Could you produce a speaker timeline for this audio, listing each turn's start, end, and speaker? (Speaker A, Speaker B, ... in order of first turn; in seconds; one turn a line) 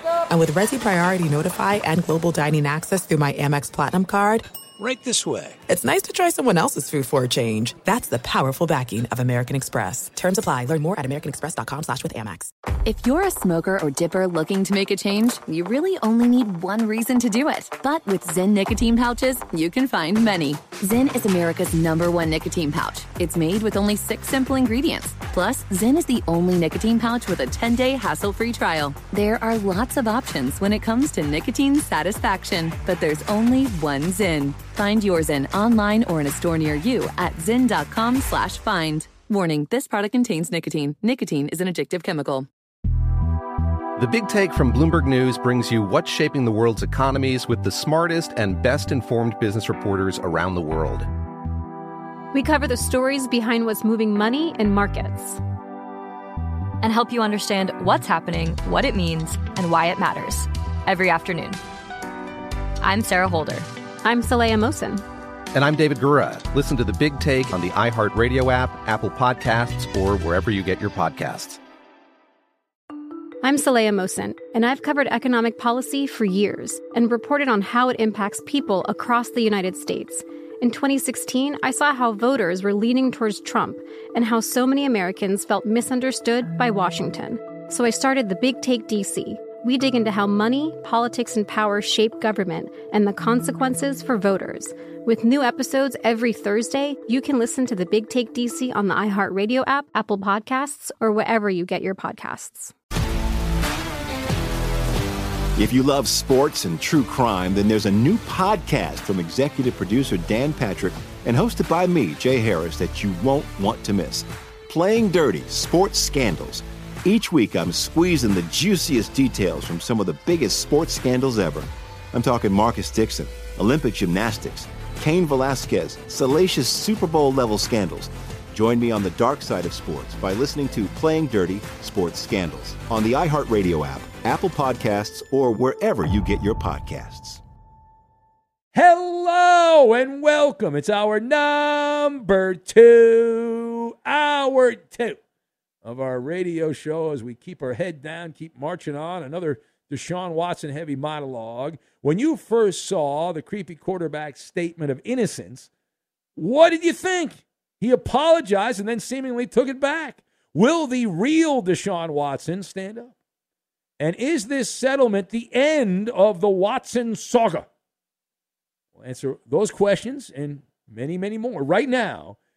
Speaker A: 0.3-4.4
Speaker A: 5.7-12.5
Speaker B: 12.8-42.5
Speaker C: 44.0-51.1
Speaker D: 52.3-55.4
Speaker E: 56.8-61.6
Speaker E: 62.8-63.7
Speaker D: 64.0-65.0
Speaker C: 65.5-71.6
Speaker D: 73.4-102.7
Speaker F: 105.5-137.4
Speaker G: 138.7-145.2
Speaker G: 145.8-155.7
Speaker G: 156.3-163.1
Speaker G: 164.0-167.7
Speaker G: 169.0-172.4